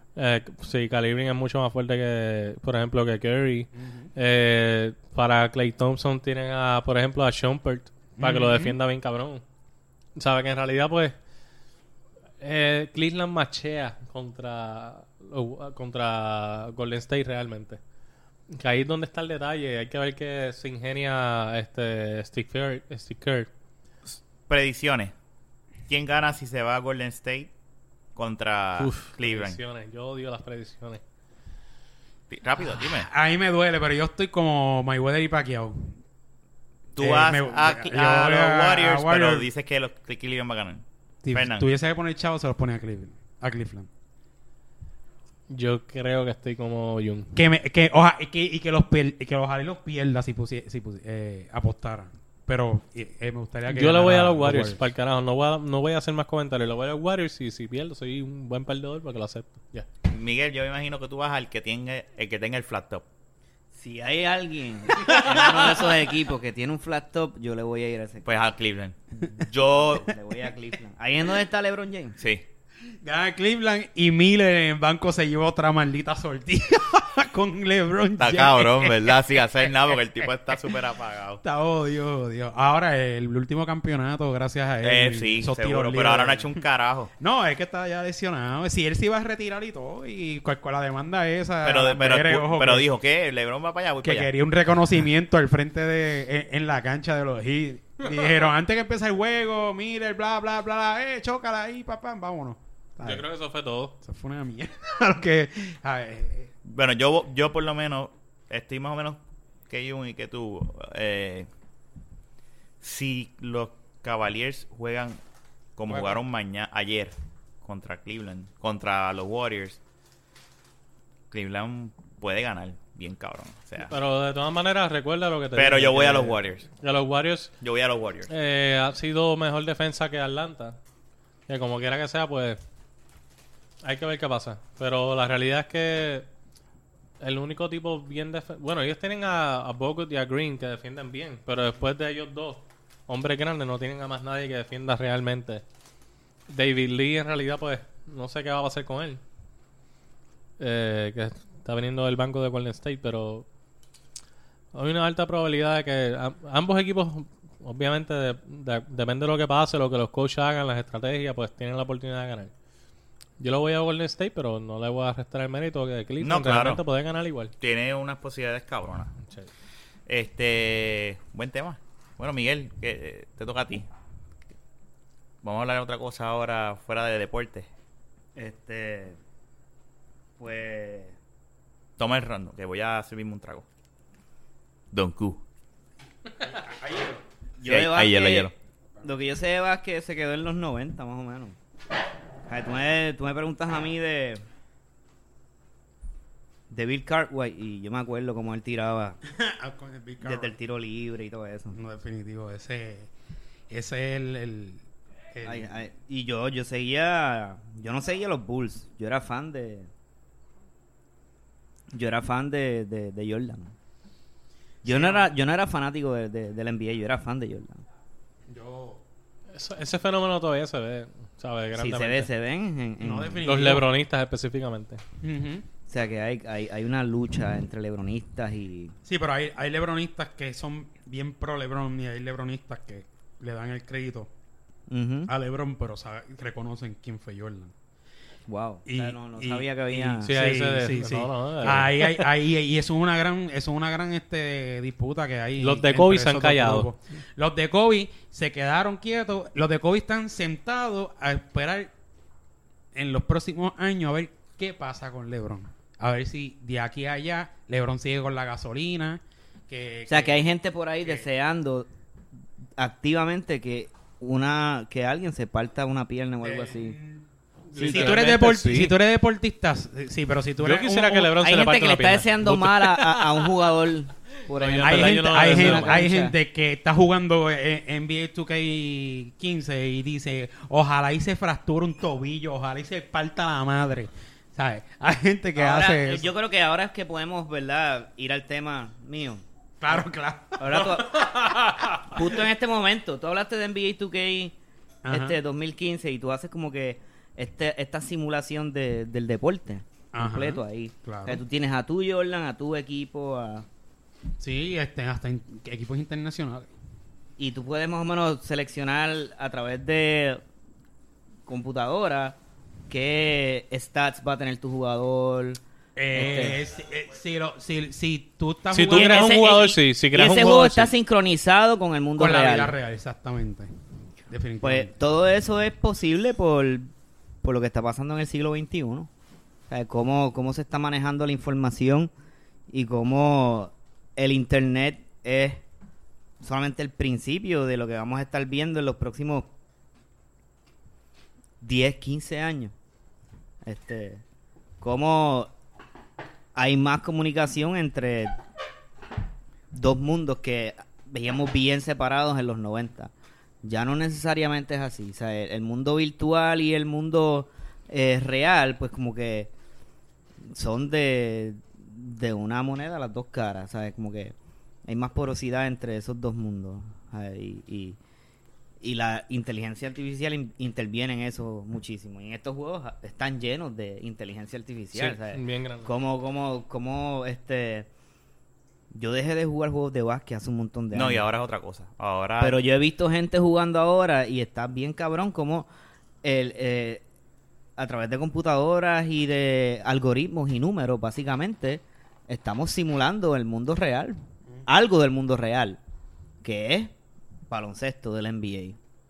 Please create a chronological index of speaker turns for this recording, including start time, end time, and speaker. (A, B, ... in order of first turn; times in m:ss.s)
0:00.2-0:09.4 A
0:03.8-0:04.1 B
0:08.2-0:08.8 B
0:10.2-0:11.2 A
0:12.4-0:17.8 A
0:18.5-0:23.5 A
0:24.1-0:25.1 C
0:25.9-0:27.5 C
0:28.2-0:29.6 C
0:28.8-0:31.0 A
0:32.3-0:33.1 C
0:32.8-0:36.0 B
0:37.0-0:41.7 C
0:37.0-0:39.5 B
0:41.2-0:43.9 B
0:45.5-0:47.4 A
0:47.4-0:54.8 B
0:53.7-0:59.9 A
1:00.1-1:03.0 C
1:03.7-1:08.3 D
1:05.2-1:05.6 B
1:08.2-1:10.2 C
1:09.7-1:12.2 D
1:12.2-1:12.4 C
1:13.0-1:20.6 B
1:18.2-1:21.4 C
1:21.4-1:26.6 B
1:24.8-1:27.1 C
1:27.2-1:32.9 B
1:31.6-1:34.3 C
1:34.0-1:43.2 B
1:43.0-1:44.0 A
1:44.0-1:46.5 B
1:46.6-1:51.5 C
1:52.8-1:55.2 C
1:55.8-1:59.8 C
1:55.9-1:56.2 B
2:01.3-2:03.9 C
2:03.8-2:07.5 A
2:05.6-2:06.7 C
2:07.6-2:08.3 C
2:08.3-2:10.8 A
2:11.5-2:12.6 A
2:13.8-2:16.3 A
2:17.2-2:25.6 A
2:26.5-2:29.2 A
2:30.6-2:33.5 A
2:34.7-2:42.5 A
2:43.4-2:47.5 A
2:46.2-2:46.8 C
2:47.6-2:49.1 C
2:50.1-2:53.9 C
2:55.4-2:57.7 C
2:58.4-2:59.2 D
3:00.4-3:01.1 D
3:02.0-3:03.6 C
3:04.9-3:05.4 C
3:06.4-3:07.2 B
3:07.6-3:11.6 D
3:07.6-3:08.5 C
3:12.5-3:14.4 D
3:16.7-3:19.2 D
3:19.3-3:20.6 B
3:20.2-3:21.8 D
3:21.7-3:23.1 B
3:23.7-3:24.8 B
3:25.3-3:25.7 B
3:25.4-3:29.9 D
3:31.9-3:33.7 D
3:34.8-3:35.3 B
3:34.8-3:37.8 D
3:38.5-3:39.0 B
3:39.5-3:42.3 A
3:41.8-3:43.5 D
3:43.0-3:43.9 B
3:43.4-3:45.0 A
3:45.2-3:45.7 B
3:45.9-3:49.0 D
3:49.1-3:54.3 B
3:54.9-3:55.3 D
3:55.3-3:57.7 B
3:58.5-4:00.3 D
3:58.9-4:11.9 B
4:00.2-4:02.3 A
4:05.6-4:06.9 A
4:12.9-4:20.4 B
4:20.1-4:21.9 D
4:22.8-4:27.0 D
4:26.4-4:31.4 B
4:27.7-4:29.0 A
4:27.8-4:28.9 D
4:30.6-4:33.4 A
4:31.4-4:36.4 D
4:34.5-4:36.0 A
4:34.8-4:46.3 B
4:45.6-4:50.0 D
4:49.8-4:52.4 B
4:50.6-4:51.3 D
4:52.1-4:54.6 D
4:55.0-4:55.4 B
4:55.1-5:03.7 D
5:00.1-5:01.4 B
5:04.4-5:06.7 B
5:07.4-5:10.4 D
5:11.5-5:12.4 D
5:12.9-5:15.6 D
5:16.0-5:19.4 B
5:16.1-5:16.6 D
5:18.7-5:20.9 A
5:18.9-5:22.7 D
5:22.2-5:23.7 B
5:24.3-5:24.9 B
5:24.6-5:26.9 D
5:27.4-5:29.1 D
5:29.7-5:32.1 D
5:32.7-5:35.6 D
5:36.4-5:39.5 D
5:41.6-5:42.7 D
5:43.6-5:44.2 D
5:44.8-5:45.5 D
5:46.6-5:48.4 D
5:49.7-5:53.1 D
5:53.6-5:59.5 D
6:00.4-6:04.3 D
6:04.9-6:08.0 D
6:08.8-6:17.9 D
6:14.9-6:15.9 A
6:18.9-6:21.2 D
6:20.9-6:22.6 C
6:22.4-6:25.7 D
6:26.2-6:27.0 D
6:27.8-6:35.8 D
6:36.4-6:36.9 D
6:37.5-6:38.8 D